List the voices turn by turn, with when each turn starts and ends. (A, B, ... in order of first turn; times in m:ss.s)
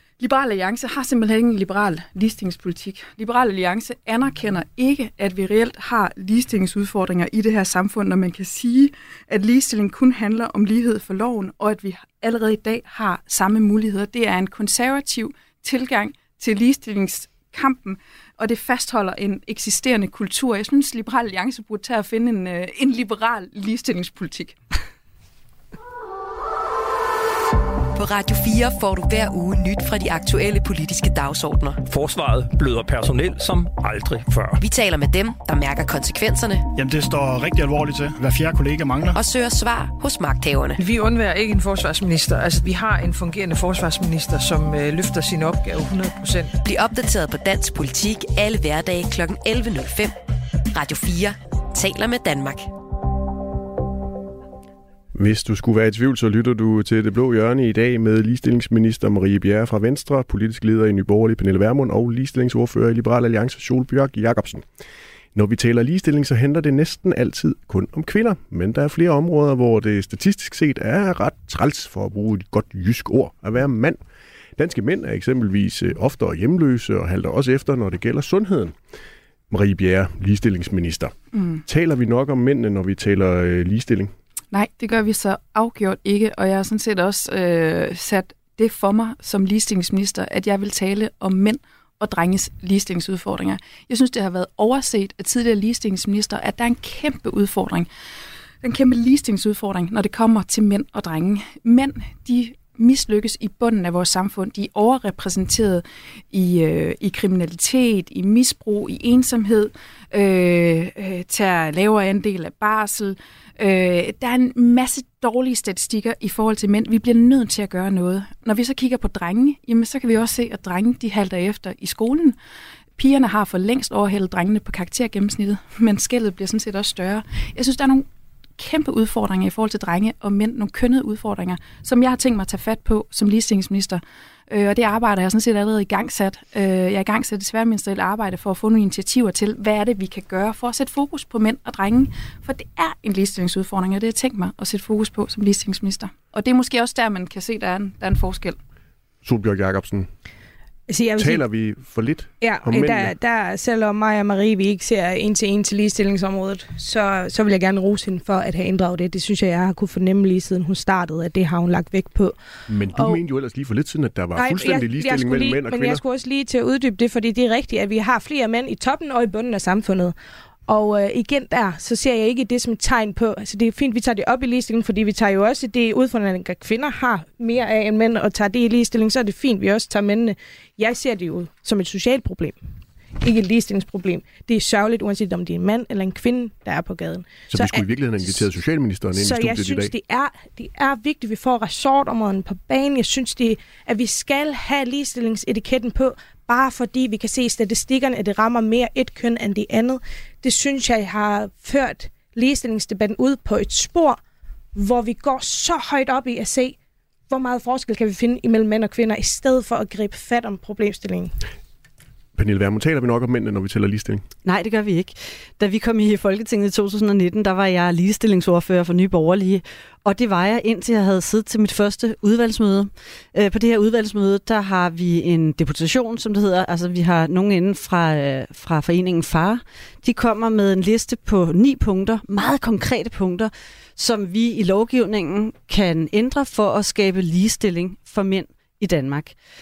0:00.2-0:24.6 A
0:27.9-0:31.8 B
0:31.8-0:34.6 C
0:34.6-0:36.7 B
0:36.8-0:39.2 D
0:39.1-0:40.8 B
0:40.8-0:46.6 E
0:46.6-0:50.2 B
0:50.7-0:52.7 B
0:55.2-1:04.6 F
1:05.4-1:14.0 F
1:14.6-1:18.8 F
1:19.5-1:21.2 F
1:21.3-1:21.6 A
1:21.7-1:24.1 F
1:24.5-1:37.9 A
1:38.6-2:02.4 A
2:03.0-2:08.1 A
2:08.6-2:28.6 A
2:29.2-2:30.1 F
2:30.9-2:31.4 G
2:31.2-2:33.1 F
2:32.4-2:42.4 G
2:42.7-2:46.0 F
2:42.9-2:43.2 G
2:44.4-2:50.2 G
2:50.7-3:02.6 G
3:03.2-3:08.5 G
3:07.5-3:09.9 F
3:09.1-3:24.2 G
3:24.8-3:26.8 G
3:27.3-3:31.3 G
3:32.4-3:34.2 F
3:34.4-3:59.4 H